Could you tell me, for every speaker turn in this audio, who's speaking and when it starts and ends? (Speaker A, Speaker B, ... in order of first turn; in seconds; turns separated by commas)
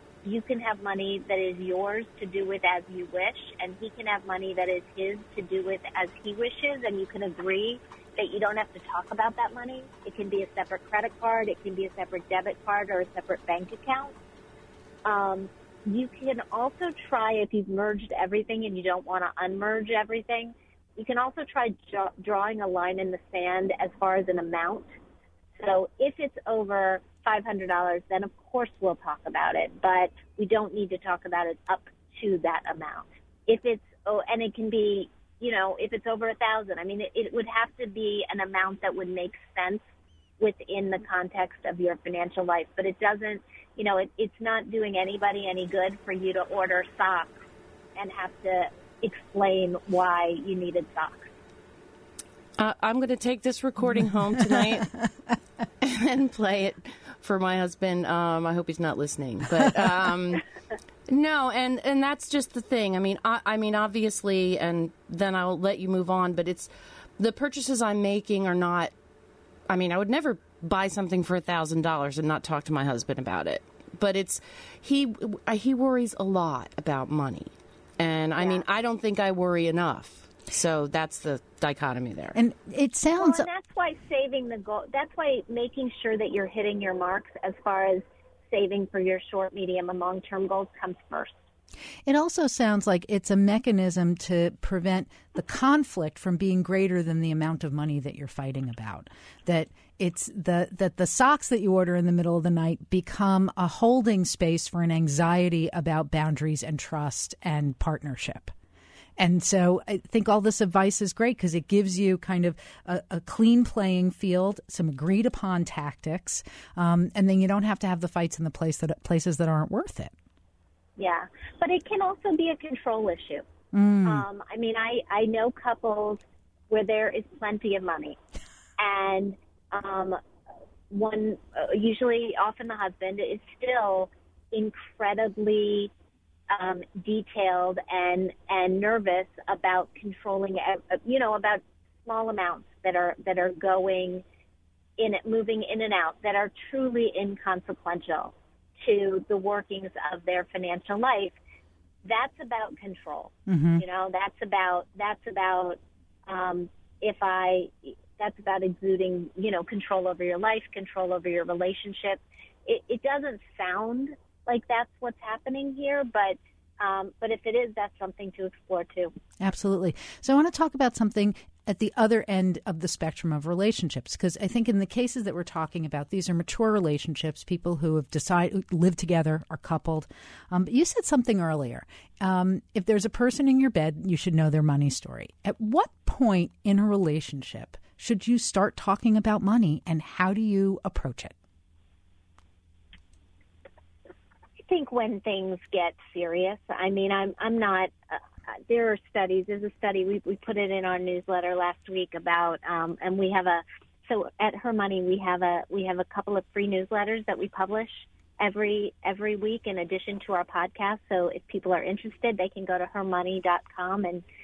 Speaker A: 0.2-14.2, Speaker A: 15.0-24.9, Speaker A: 25.6-39.8, Speaker A: 40.4-47.4, Speaker A: 48.0-51.3, Speaker B: 52.6-54.9, Speaker B: 55.8-60.4, Speaker B: 61.1-68.9, Speaker B: 69.7-82.4, Speaker A: 78.4-78.6, Speaker C: 82.3-83.5, Speaker A: 83.2-91.4, Speaker C: 92.0-108.5, Speaker C: 109.2-120.1, Speaker A: 121.0-123.4, Speaker C: 123.7-124.2, Speaker A: 124.0-128.2, Speaker A: 128.8-130.2, Speaker A: 130.9-135.9, Speaker A: 136.5-144.2, Speaker A: 145.0-151.3, Speaker A: 152.0-169.1, Speaker C: 153.5-153.8, Speaker C: 169.4-191.3, Speaker A: 194.6-214.2